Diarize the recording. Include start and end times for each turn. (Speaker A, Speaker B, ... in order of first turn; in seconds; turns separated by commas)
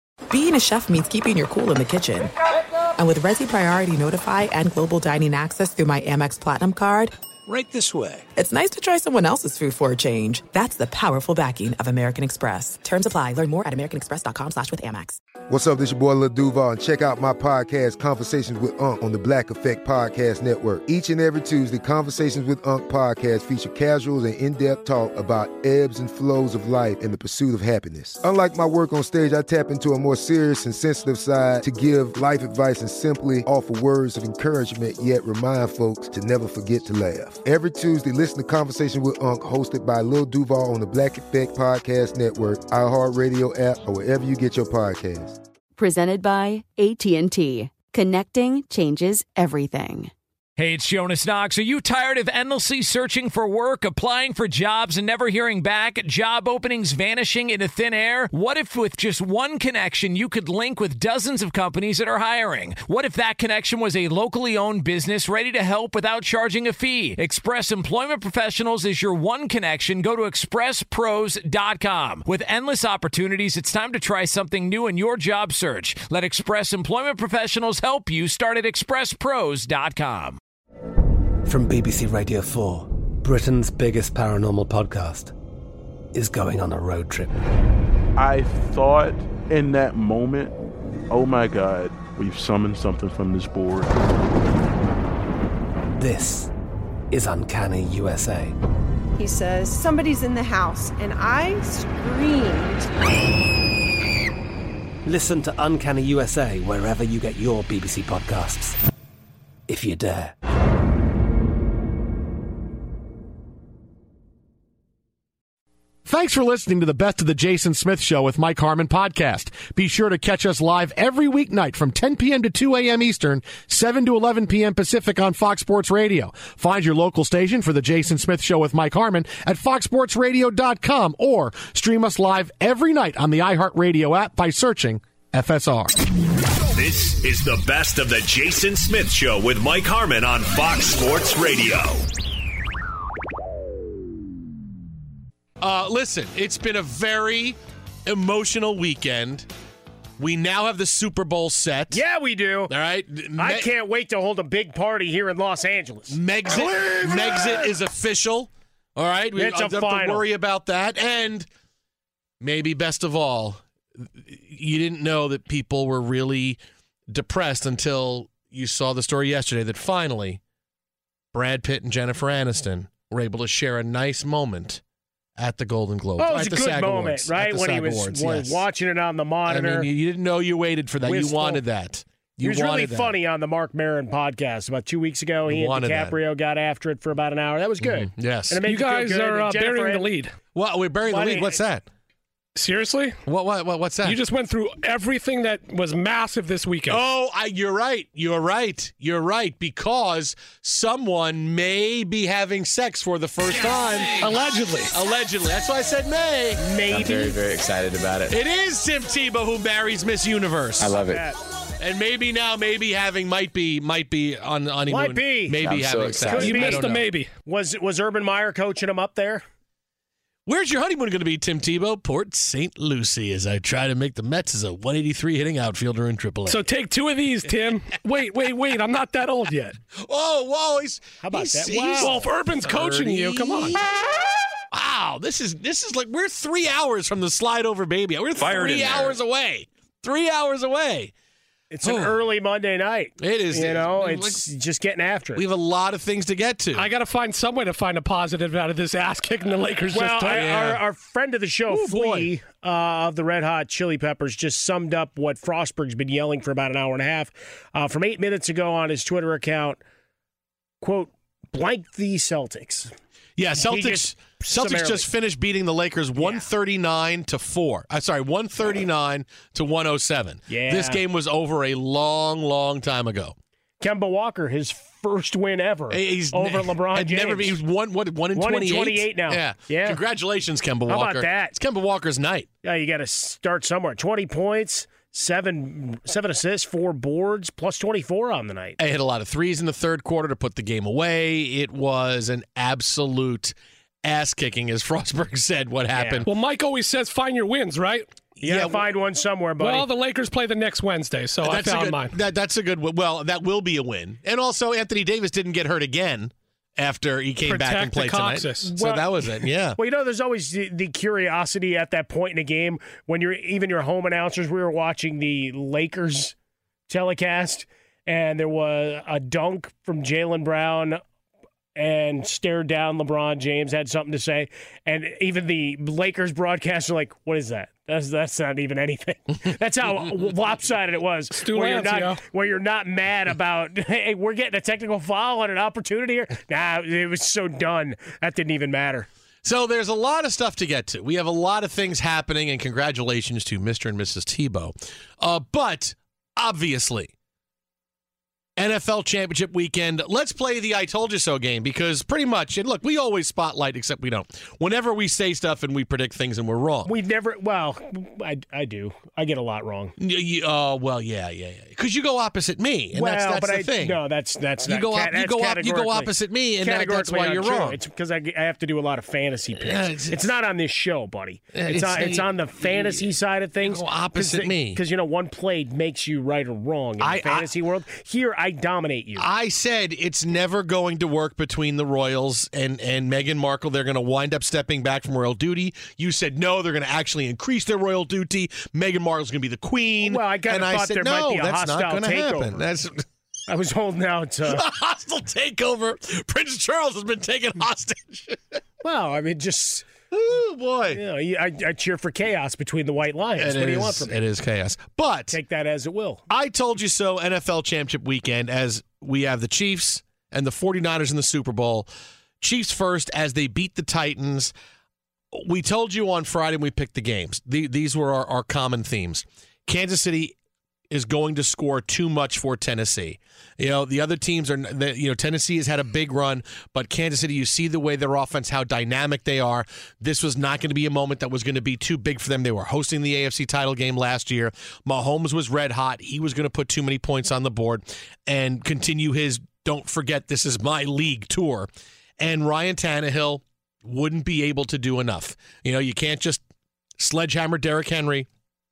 Speaker A: 0.3-2.3, Speaker A: 3.0-7.1, Speaker A: 8.4-15.2, Speaker B: 15.5-45.4, Speaker C: 45.8-50.1, Speaker D: 50.6-80.4, Speaker E: 81.5-85.3, Speaker E: 86.1-87.3, Speaker F: 88.2-90.5, Speaker F: 91.1-93.9, Speaker E: 96.0-96.5, Speaker E: 97.1-98.5, Speaker G: 99.2-102.9, Speaker E: 105.0-108.8, Speaker E: 109.7-110.3, Speaker H: 116.1-135.9, Speaker I: 136.7-142.1, Speaker H: 145.6-149.5, Speaker H: 150.2-152.0, Speaker J: 151.9-152.7, Speaker H: 152.7-153.7, Speaker J: 153.4-156.2, Speaker H: 156.1-161.5, Speaker K: 156.8-157.5, Speaker J: 159.4-160.2, Speaker H: 162.4-170.4, Speaker H: 171.3-174.8, Speaker H: 175.4-178.6, Speaker J: 176.2-179.9, Speaker H: 179.5-183.2, Speaker J: 181.0-181.6, Speaker J: 182.4-190.2, Speaker H: 185.5-186.2, Speaker H: 187.8-188.6, Speaker K: 188.6-190.3, Speaker H: 190.5-191.9, Speaker J: 191.1-191.6, Speaker K: 192.6-193.2, Speaker H: 193.2-194.2, Speaker K: 194.0-197.0, Speaker H: 196.9-204.3, Speaker K: 204.2-204.9, Speaker H: 204.9-206.6, Speaker J: 206.6-207.4, Speaker L: 206.9-208.4, Speaker H: 208.3-210.9, Speaker L: 210.8-211.3, Speaker H: 211.8-217.1, Speaker J: 214.9-215.6, Speaker L: 215.6-216.7, Speaker J: 216.3-216.9, Speaker K: 216.4-217.3, Speaker J: 217.4-219.4, Speaker H: 220.5-226.6, Speaker K: 226.5-229.8, Speaker H: 229.9-233.8, Speaker J: 231.2-232.3, Speaker K: 232.0-233.8, Speaker H: 234.7-241.1, Speaker J: 238.6-239.0, Speaker J: 241.7-245.4, Speaker H: 241.8-242.2, Speaker H: 243.2-244.4, Speaker H: 245.3-246.9, Speaker K: 246.8-250.7, Speaker J: 249.9-259.8, Speaker H: 250.3-250.8, Speaker H: 251.7-252.3, Speaker J: 260.8-262.9, Speaker H: 263.4-273.4, Speaker J: 263.6-265.1, Speaker J: 266.2-266.4, Speaker J: 270.5-271.0, Speaker J: 273.8-277.6, Speaker H: 275.9-282.5, Speaker J: 278.4-280.0, Speaker J: 280.9-281.6, Speaker J: 282.6-288.8, Speaker H: 288.8-296.3, Speaker J: 295.9-296.2, Speaker K: 296.3-298.1, Speaker H: 298.4-298.8, Speaker J: 298.4-299.9, Speaker K: 299.6-302.2, Speaker H: 301.4-309.8, Speaker K: 307.4-308.8, Speaker J: 308.7-316.4, Speaker J: 316.9-321.0, Speaker J: 321.8-339.1, Speaker K: 331.3-332.2, Speaker H: 339.4-347.1, Speaker H: 348.6-356.9, Speaker J: 356.9-359.9, Speaker H: 360.0-364.0, Speaker J: 362.9-379.3, Speaker H: 364.7-367.8, Speaker H: 369.6-370.3, Speaker H: 371.5-374.8, Speaker H: 377.0-377.5, Speaker H: 379.2-393.1, Speaker J: 390.0-392.6, Speaker J: 393.5-394.6, Speaker H: 394.5-398.6, Speaker J: 398.8-399.9, Speaker H: 400.1-401.0, Speaker J: 400.9-404.1, Speaker H: 403.4-405.4, Speaker J: 405.3-406.2, Speaker H: 406.3-411.9, Speaker H: 412.4-414.5, Speaker H: 415.3-420.4, Speaker H: 420.9-441.7, Speaker H: 442.2-446.4, Speaker H: 447.0-448.3